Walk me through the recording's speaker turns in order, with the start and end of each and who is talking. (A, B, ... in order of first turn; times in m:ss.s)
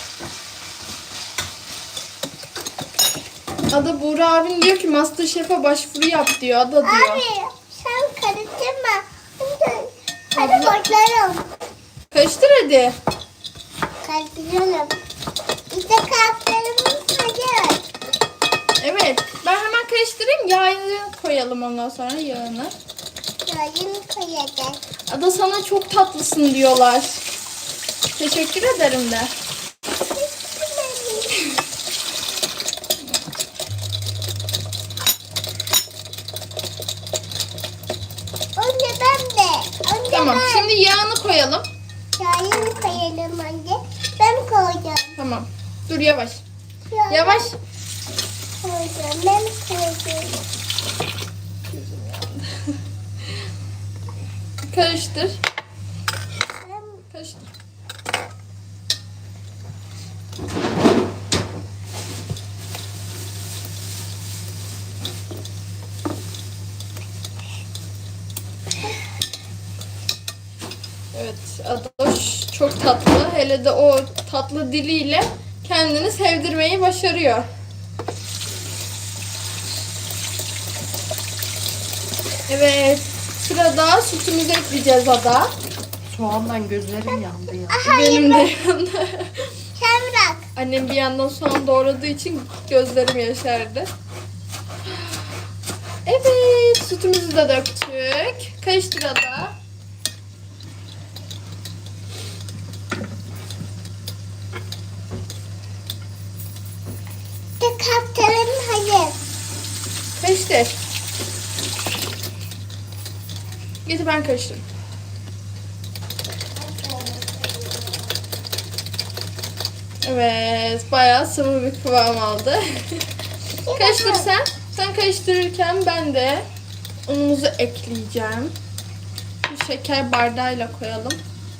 0:03.7-0:07.2 A
0:06.8-0:11.5 B
0:10.4-0:10.9 A
0:12.1-0:13.0 A
0:14.0-0:15.0 B
0:15.7-0:17.8 B
0:18.8-0:22.7 A
0:23.4-0:24.8 B
0:25.1-0:27.2 A
0:28.1-0:29.3 A
0:30.1-0:31.4 B
0:38.6-0:40.7 B
0:40.1-0:41.7 A
0:42.2-0:45.1 B
0:42.6-0:43.0 C
0:45.2-0:46.4 A
0:46.9-0:47.5 B
0:47.1-0:47.6 A
0:48.6-0:50.4 B
0:51.7-0:52.8 A
0:54.6-0:55.4 A
0:56.6-0:57.0 B
0:57.1-0:57.5 A
1:11.1-1:17.5 A
1:22.5-1:25.5 A
1:26.1-1:27.8 C
1:27.7-1:28.5 B
1:27.8-1:29.6 A
1:29.8-1:30.5 B
1:30.6-1:33.9 A
1:36.0-1:39.6 A
1:47.6-1:49.2 B
1:50.2-1:50.8 A
1:53.8-1:54.6 A
1:56.7-1:57.2 B
2:00.0-2:03.1 A
2:03.6-2:04.3 B
2:03.7-2:06.5 A
2:07.0-2:08.5 A
2:09.4-2:11.2 A